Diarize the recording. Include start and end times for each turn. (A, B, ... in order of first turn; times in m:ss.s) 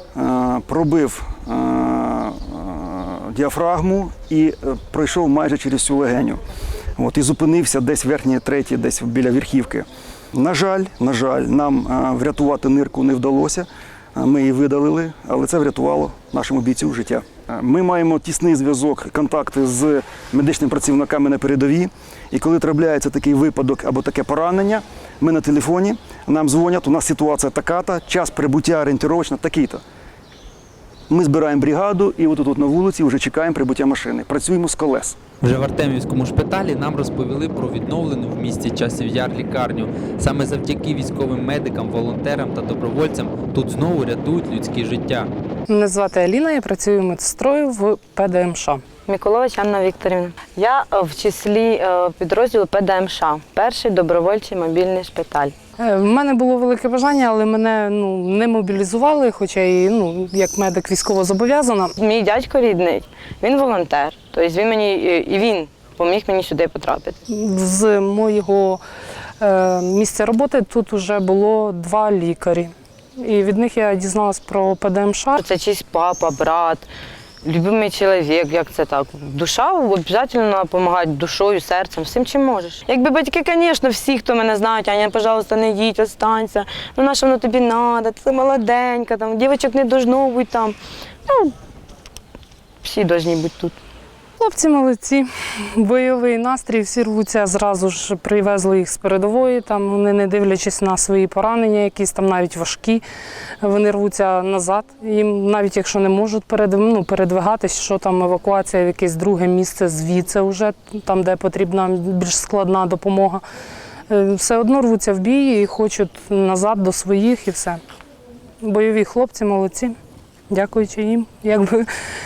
0:00.2-0:06.4 A
0:07.0-0:29.8 A
0:31.1-0:35.2 A
0:35.4-0:45.3 B
0:45.7-0:48.8 C
0:49.1-0:55.6 D
0:55.8-1:02.0 C
1:02.0-1:07.2 D
1:07.3-1:08.8 C
1:09.4-1:15.4 C
1:15.4-1:16.9 D
1:17.4-1:31.6 D
1:32.8-1:33.8 D
1:34.4-1:43.0 C
1:43.6-1:53.4 C
1:54.1-1:57.8 C
1:58.6-2:00.0 C
2:00.5-2:01.9 C